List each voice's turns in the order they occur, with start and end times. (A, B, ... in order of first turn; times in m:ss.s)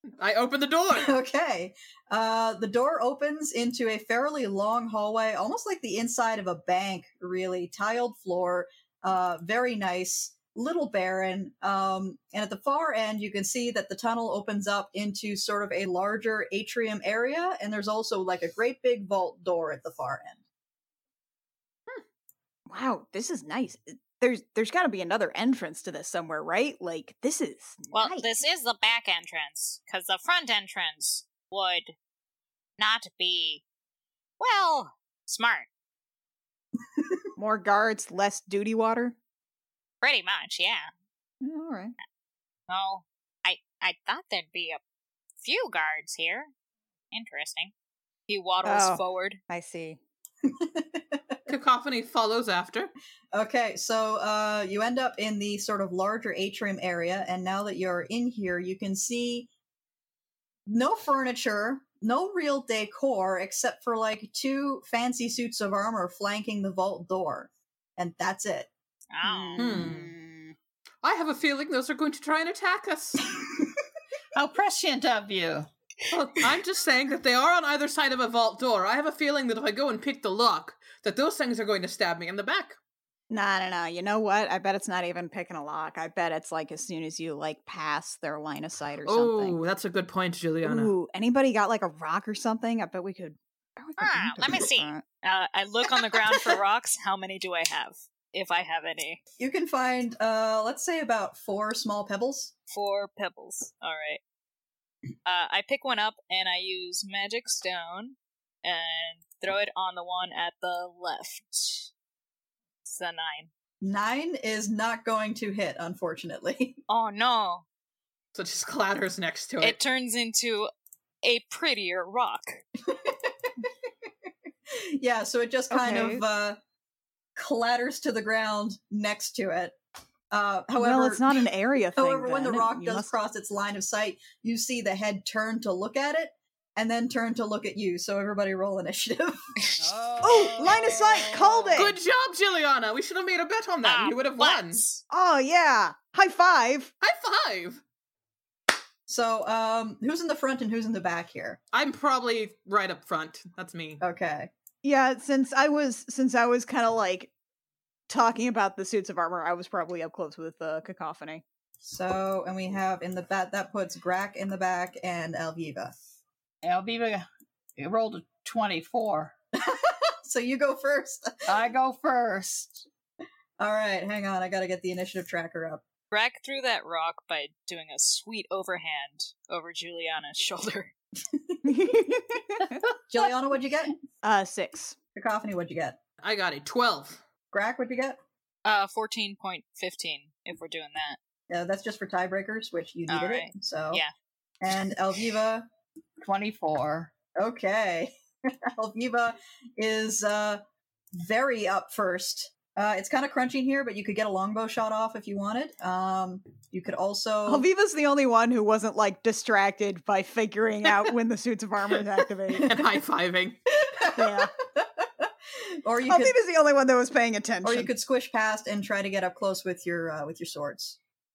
0:00.2-0:01.1 A
0:00.9-0:20.4 B
0:22.7-0:28.3 C
0:27.9-0:31.9 D
0:32.8-0:33.6 D
0:34.4-0:35.7 D
0:37.4-0:39.2 C
0:40.0-0:40.9 D
0:41.4-0:42.0 C
0:42.7-0:44.8 D
0:45.4-0:46.5 D
0:47.1-0:47.7 D
0:48.3-0:49.4 D
0:48.6-0:50.0 C
0:50.5-0:51.4 B
0:51.5-0:52.9 A
0:53.3-0:59.5 B
1:00.7-1:08.7 B
1:09.1-1:09.8 D
1:09.2-1:10.5 C
1:09.6-1:10.1 A
1:11.0-1:13.3 A
1:14.4-1:15.7 E
1:16.1-1:22.8 A
1:23.3-1:29.6 C
1:29.0-1:30.9 A
1:30.6-1:35.0 C
1:34.0-1:39.2 D
1:39.4-1:42.5 B
1:42.7-1:44.2 D
1:45.3-1:51.9 D
1:52.8-1:53.5 D
1:53.8-1:56.8 B
1:56.9-1:57.6 D
1:58.4-1:59.8 A
1:59.6-2:00.7 D
2:01.2-2:02.5 D
2:02.9-2:03.5 B
2:04.7-2:06.6 B
2:05.7-2:06.2 C
2:07.4-2:09.8 B
2:10.3-2:11.4 B
2:10.8-2:13.1 C
2:12.0-2:19.6 B
2:19.8-2:21.8 E
2:20.2-2:22.0 C
2:21.8-2:24.8 A
2:23.8-2:25.0 D
2:25.1-2:26.9 C
2:27.0-2:27.8 A
2:29.1-2:31.6 B
2:31.7-2:34.0 A
2:34.0-2:34.5 B
2:34.8-2:37.3 C
2:38.1-2:41.4 C
2:41.8-2:45.9 B
2:46.6-2:47.3 E
2:47.8-2:49.3 E
2:49.6-2:51.4 B
2:51.5-2:52.9 E
2:53.6-2:55.8 B
2:56.1-3:00.9 D
3:01.3-3:01.6 B
3:01.6-3:02.8 C
3:03.1-3:04.0 B
3:04.2-3:05.0 C
3:05.2-3:06.0 B
3:06.2-3:07.2 A
3:07.5-3:08.2 B
3:08.6-3:11.2 D
3:11.5-3:14.0 B
3:13.1-3:14.1 D
3:14.6-3:15.7 B
3:16.2-3:17.1 E
3:17.4-3:18.1 B
3:18.7-3:20.6 B
3:21.2-3:27.6 B
3:27.5-3:32.7 C
3:32.5-3:32.9 B
3:32.6-3:33.6 A
3:33.8-3:36.4 B
3:34.2-3:34.5 C
3:36.1-3:37.9 C
3:37.6-3:41.0 B